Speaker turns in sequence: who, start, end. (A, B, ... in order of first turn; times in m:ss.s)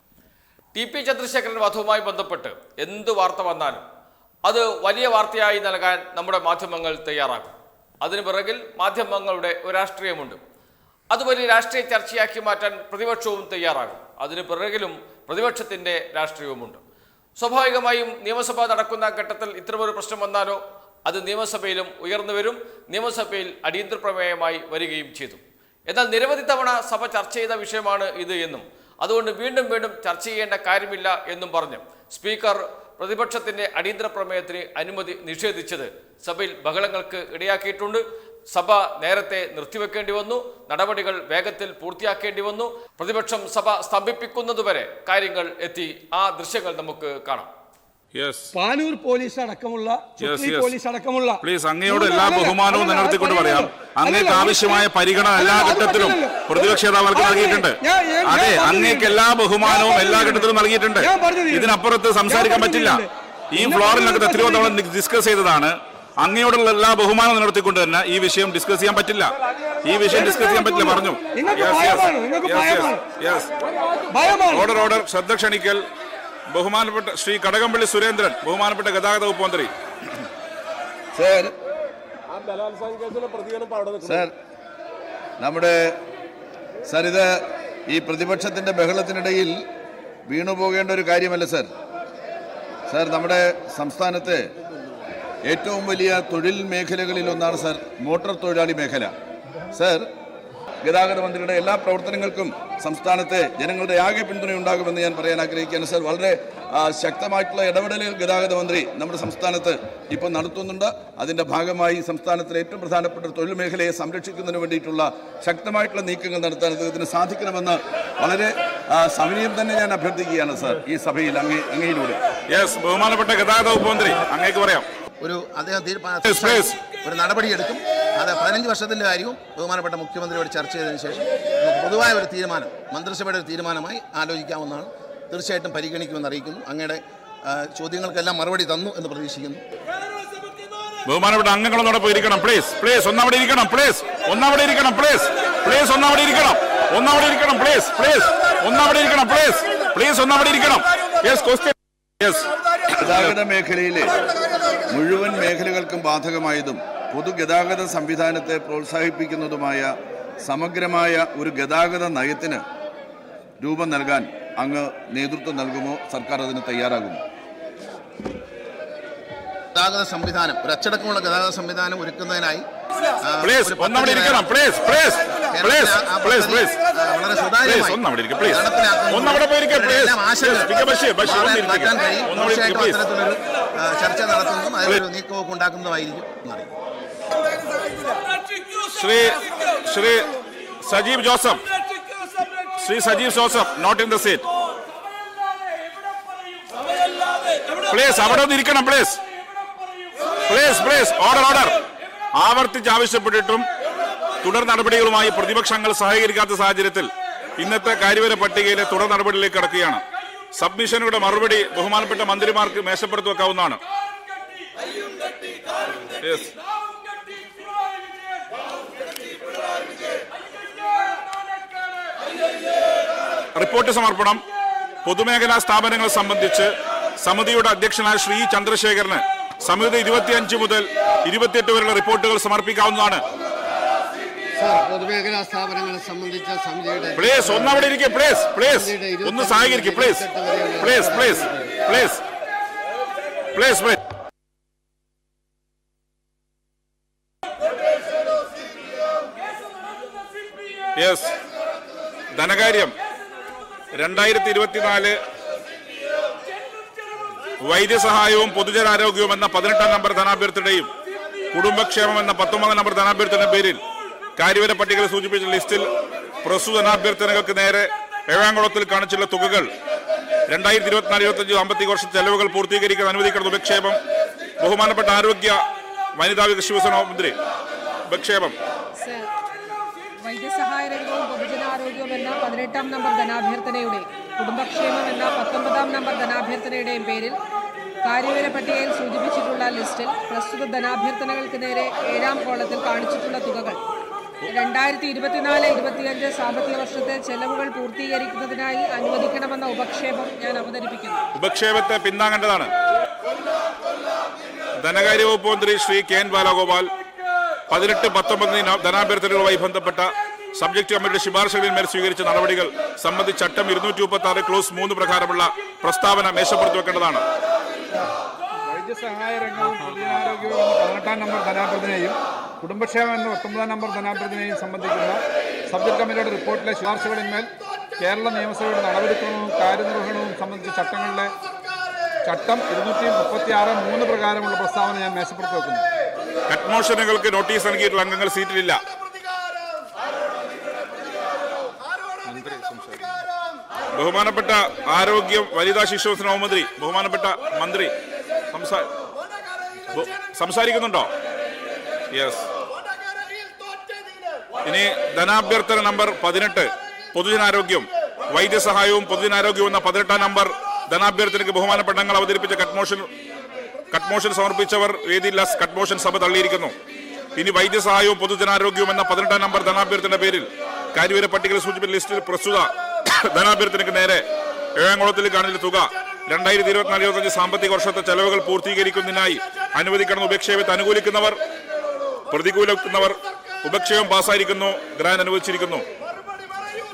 0:00.8-0:03.8 A
0:04.4-0:10.4 A
0:11.1-0:16.8 A
0:17.4-0:47.5 A
0:48.1-0:48.5 B
0:48.5-1:01.7 C
0:50.2-0:50.8 B
0:51.4-1:09.3 B
1:02.2-1:04.7 C
1:09.8-1:13.5 B
1:10.1-1:13.0 C
1:14.1-1:14.7 C
1:14.4-1:15.8 B
1:16.5-1:19.7 B
1:21.2-1:21.5 D
1:24.0-1:24.3 D
1:25.4-1:26.0 D
1:26.9-1:29.6 D
1:30.3-1:31.7 D
1:32.9-1:34.5 D
1:35.5-1:39.1 D
1:39.7-1:40.0 D
1:40.8-2:02.2 D
2:02.5-2:04.9 B
2:05.2-2:19.6 E
2:06.2-2:06.8 B
2:21.1-2:32.5 B
2:33.0-2:34.2 D
2:33.0-2:33.3 B
2:34.9-2:42.6 D
2:43.6-2:47.2 D
2:49.8-2:52.7 E
2:53.2-2:54.5 E
2:53.4-2:56.8 B
2:55.5-3:06.7 E
2:57.6-3:03.0 B
3:08.8-3:10.3 B
3:10.8-3:11.6 B
3:12.8-3:14.4 B
3:17.9-3:19.2 B
3:20.4-3:21.8 B
3:22.4-3:23.6 B
3:24.4-3:30.0 B
3:30.6-3:33.8 B
3:36.2-3:36.5 B
3:43.6-3:44.4 B
3:45.0-3:53.2 B
3:54.6-3:57.3 F
3:57.2-4:02.2 B
3:58.9-3:59.3 F
3:59.9-4:01.5 F
4:03.5-4:04.0 B
4:11.0-4:11.3 B
4:12.4-4:12.9 B
4:14.0-4:15.2 B
4:17.6-4:20.9 B
4:21.5-4:23.8 B
4:24.4-4:25.9 B
4:26.4-4:29.7 B
4:30.5-4:34.0 B
4:34.6-4:35.6 B
4:36.2-4:37.3 B
4:38.1-4:38.5 B
4:39.0-4:39.3 G
4:40.2-4:47.4 G
4:48.0-4:53.8 G
4:54.5-5:01.2 G
5:01.4-5:02.7 B
5:04.8-5:06.9 B
5:07.7-5:17.2 B
5:18.7-5:27.5 H
5:28.0-5:31.3 H
5:32.2-5:35.9 H
5:36.5-5:38.8 B
5:42.3-5:43.1 B
5:44.0-5:47.9 B
5:48.5-5:48.9 B
5:49.9-5:51.1 B
5:52.1-5:52.5 B
5:54.6-6:03.1 B
6:03.9-6:06.7 B
6:07.4-6:14.2 B
6:14.8-6:21.4 B
6:22.3-6:25.8 B